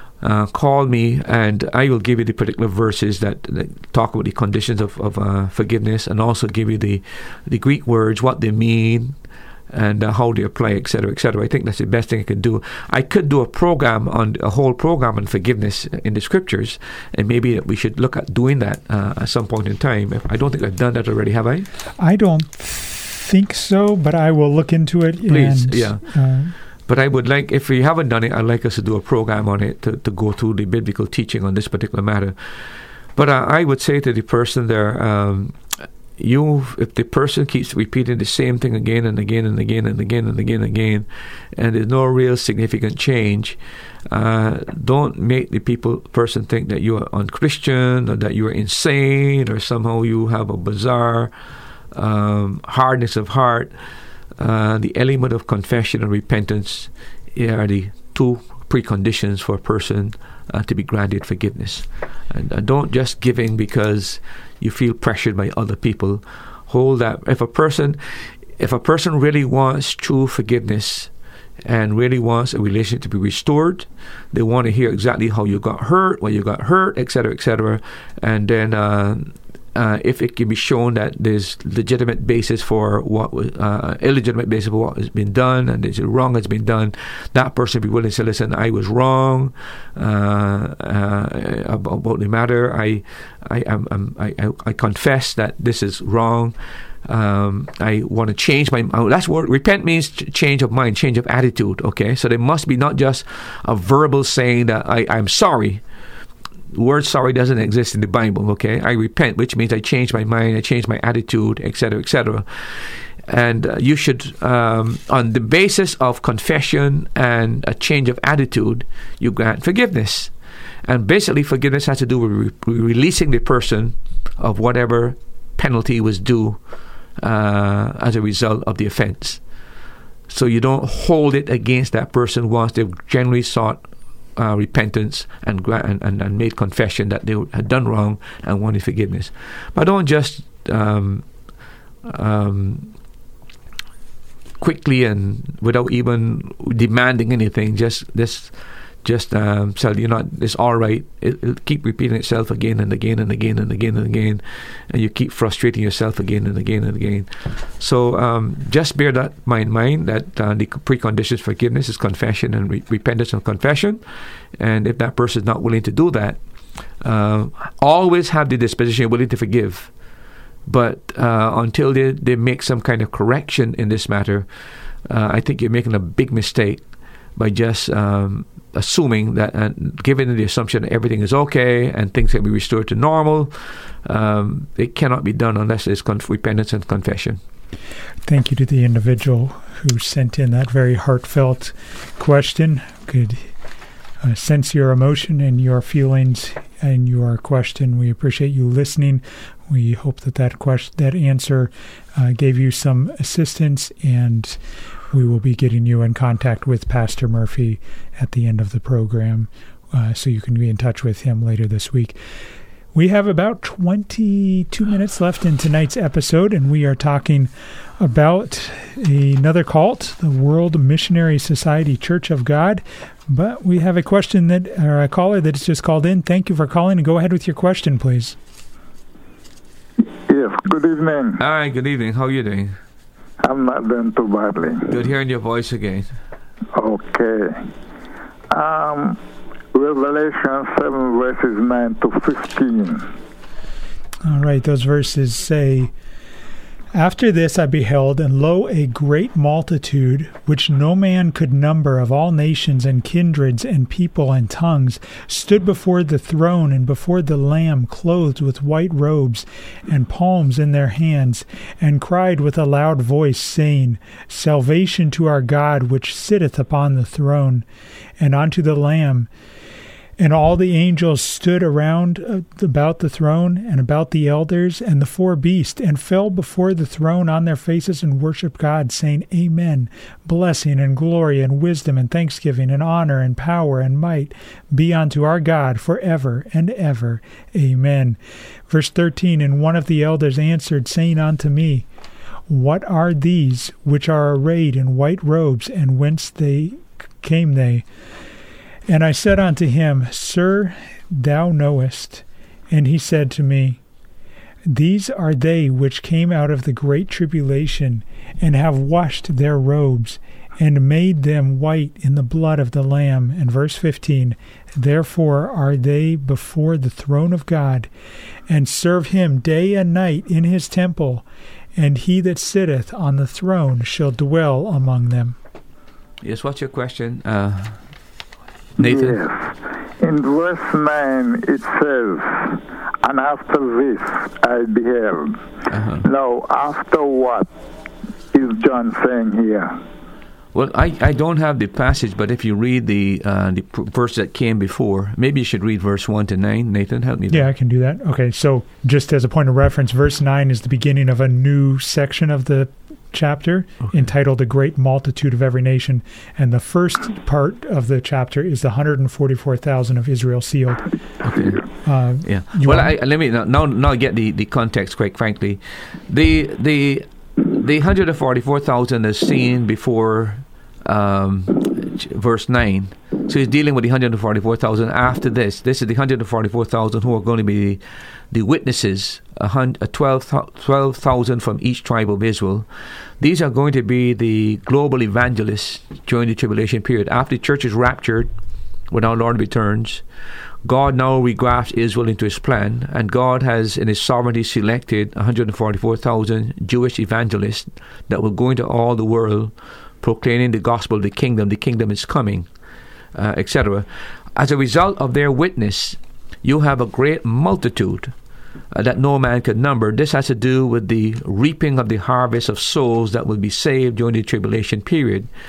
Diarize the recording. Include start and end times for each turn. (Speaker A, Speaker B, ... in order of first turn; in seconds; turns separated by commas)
Speaker A: 0.2-9.2, Speaker A: 9.7-21.7, Speaker B: 22.0-26.5, Speaker A: 25.2-26.0, Speaker A: 26.9-32.4, Speaker A: 33.1-43.6, Speaker A: 44.1-51.3, Speaker A: 51.9-53.7, Speaker A: 54.4-68.0, Speaker A: 68.6-71.1, Speaker A: 71.6-105.8, Speaker A: 106.7-120.3, Speaker A: 120.8-126.6, Speaker A: 127.2-129.4, Speaker A: 130.3-133.8, Speaker A: 134.3-141.2, Speaker A: 142.0-142.9, Speaker A: 144.6-164.0, Speaker A: 164.6-166.4, Speaker A: 167.0-169.9, Speaker A: 170.7-174.5, Speaker A: 175.1-176.8, Speaker A: 177.3-183.5, Speaker A: 184.0-187.4, Speaker B: 188.2-193.5, Speaker B: 194.2-204.6, Speaker B: 205.1-212.2, Speaker B: 212.9-228.3, Speaker C: 230.3-231.4, Speaker A: 231.4-232.8, Speaker C: 233.4-234.9, Speaker A: 234.9-236.1, Speaker C: 236.7-237.7, Speaker C: 238.5-239.2, Speaker C: 239.7-243.1, Speaker B: 244.2-245.9, Speaker B: 246.9-267.6, Speaker B: 268.2-269.3, Speaker B: 270.2-288.2, Speaker B: 288.7-291.9, Speaker B: 292.5-297.9, Speaker B: 298.9-303.8, Speaker B: 304.7-317.9, Speaker B: 318.5-321.2, Speaker B: 321.8-325.4, Speaker A: 326.2-327.8, Speaker A: 328.8-329.2, Speaker C: 328.8-335.4, Speaker A: 335.7-336.0, Speaker C: 336.0-337.5, Speaker C: 338.3-339.8, Speaker A: 340.5-347.5, Speaker B: 347.3-360.9, Speaker A: 361.2-361.6, Speaker B: 361.8-362.9, Speaker A: 362.2-382.7, Speaker A: 383.2-388.3, Speaker A: 388.9-390.0, Speaker A: 390.6-402.5, Speaker A: 403.1-408.1, Speaker A: 408.7-415.3